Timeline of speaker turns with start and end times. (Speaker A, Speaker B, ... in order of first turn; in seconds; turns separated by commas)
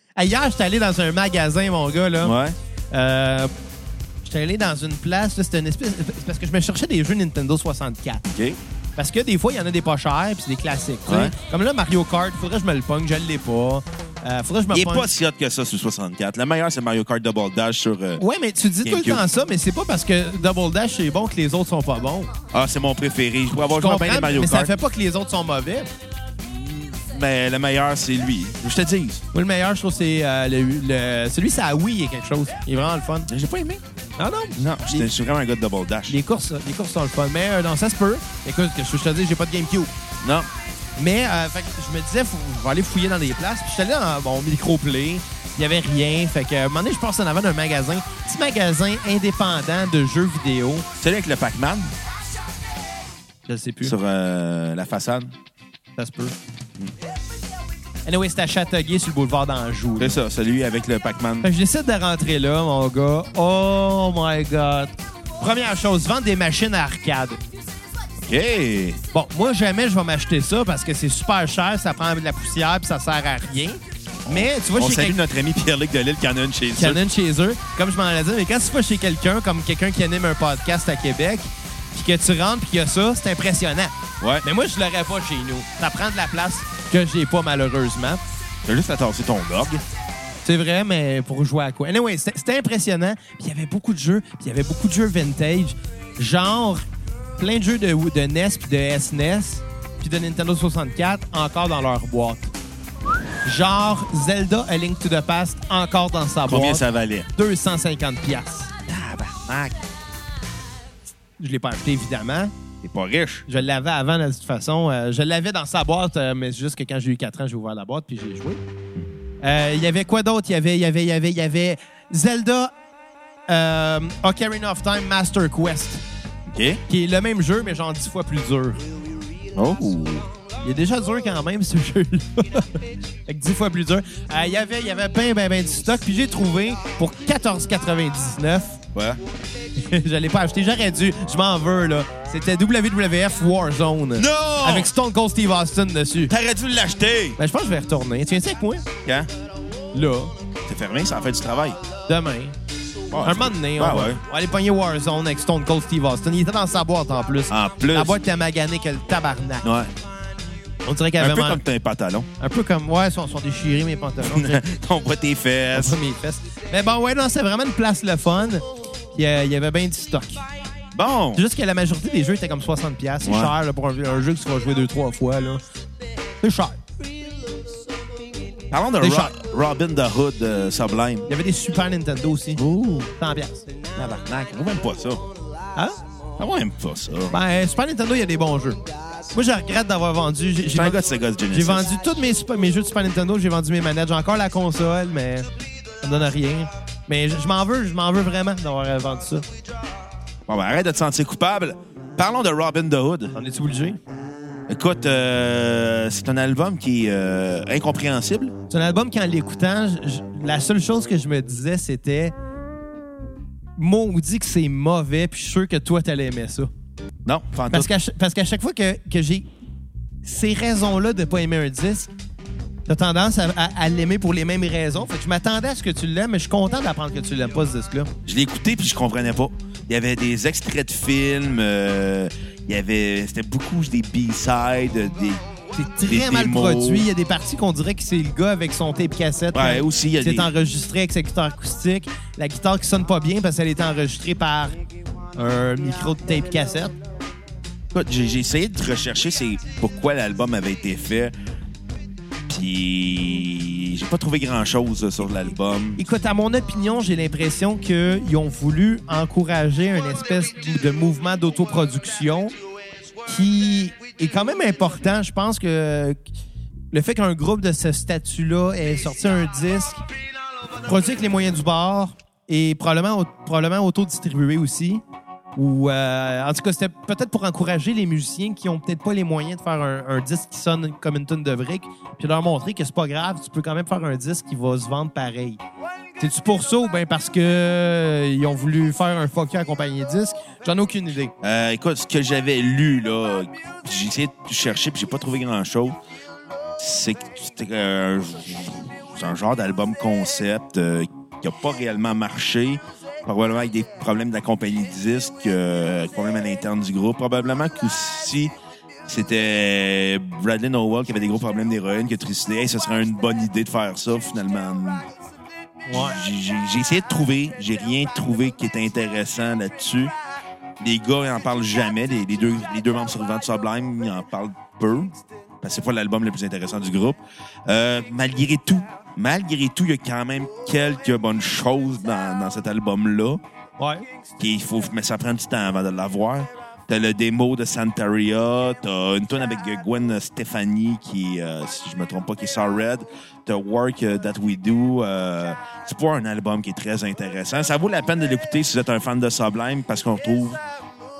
Speaker A: 0.2-2.3, Speaker B: 2.2-2.5, Speaker A: 2.9-3.5, Speaker A: 4.2-8.2, Speaker B: 8.3-8.6, Speaker A: 9.0-15.1, Speaker B: 11.1-11.3, Speaker B: 14.7-18.2, Speaker A: 18.2-22.3, Speaker B: 18.8-19.2, Speaker B: 22.5-24.7, Speaker A: 23.7-25.9, Speaker B: 26.4-29.2, Speaker A: 29.3-33.3, Speaker B: 33.3-33.8, Speaker A: 34.2-35.1, Speaker B: 34.6-36.2, Speaker A: 36.1-39.9, Speaker B: 40.2-40.5, Speaker A: 41.0-50.8, Speaker B: 51.0-51.9, Speaker A: 53.5-53.9, Speaker B: 53.8-55.3, Speaker A: 56.0-56.3, Speaker A: 58.0-60.2, Speaker B: 60.0-61.5, Speaker A: 61.4-67.4, Speaker B: 68.2-69.0, Speaker A: 69.1-75.2, Speaker B: 74.2-77.0, Speaker A: 76.7-88.2, Speaker B: 88.6-89.8, Speaker A: 90.4-96.8, Speaker A: 97.4-102.5, Speaker A: 103.4-106.8, Speaker B: 106.5-107.3, Speaker A: 107.3-108.7, Speaker B: 108.9-109.8, Speaker A: 111.4-112.5, Speaker B: 112.8-113.4, Speaker A: 113.5-118.6, Speaker A: 119.4-122.7, Speaker A: 123.5-126.0, Speaker B: 126.5-126.8, Speaker A: 126.9-128.8, Speaker B: 129.5-130.3, Speaker A: 130.6-138.8, Speaker B: 138.9-139.2, Speaker A: 139.8-146.3, Speaker B: 144.2-144.9, Speaker B: 146.3-147.4, Speaker A: 147.4-148.8, Speaker B: 149.0-149.3, Speaker A: 149.9-150.3, Speaker B: 150.7-151.8, Speaker A: 152.1-152.5, Speaker B: 153.1-154.2, Speaker A: 153.2-159.6, Speaker B: 157.5-158.2, Speaker B: 159.6-159.9, Speaker A: 160.8-161.6, Speaker B: 161.2-162.3, Speaker A: 162.4-164.6, Speaker B: 164.2-166.0, Speaker A: 165.7-170.4, Speaker B: 170.9-171.4, Speaker A: 171.3-175.6, Speaker B: 173.2-173.5, Speaker A: 176.4-176.8, Speaker B: 178.7-181.3, Speaker A: 179.0-179.3, Speaker A: 181.3-182.6, Speaker B: 182.6-183.1, Speaker A: 183.1-183.7, Speaker B: 183.9-185.2, Speaker B: 186.4-187.4, Speaker A: 187.3-188.8, Speaker A: 189.3-195.5, Speaker B: 190.7-191.9, Speaker A: 196.0-199.4, Speaker B: 200.5-203.3, Speaker A: 203.3-204.0, Speaker B: 204.7-208.5, Speaker A: 208.7-212.3, Speaker A: 213.8-216.7, Speaker B: 217.2-217.9, Speaker A: 217.7-219.5, Speaker A: 220.2-222.1, Speaker A: 222.9-228.1, Speaker B: 228.2-235.4, Speaker A: 235.7-244.8, Speaker B: 236.1-237.1, Speaker B: 239.5-240.5, Speaker A: 245.3-246.9, Speaker B: 247.9-251.3, Speaker B: 252.5-256.0, Speaker A: 256.0-262.5, Speaker A: 263.2-266.2, Speaker A: 266.9-270.0, Speaker A: 270.8-275.0, Speaker A: 275.6-285.6, Speaker A: 286.2-291.3, Speaker B: 291.4-296.0, Speaker B: 296.8-308.5, Speaker B: 309.1-315.1, Speaker A: 315.9-316.2, Speaker B: 315.9-320.1, Speaker B: 320.8-333.4, Speaker A: 333.8-334.1, Speaker B: 334.4-350.6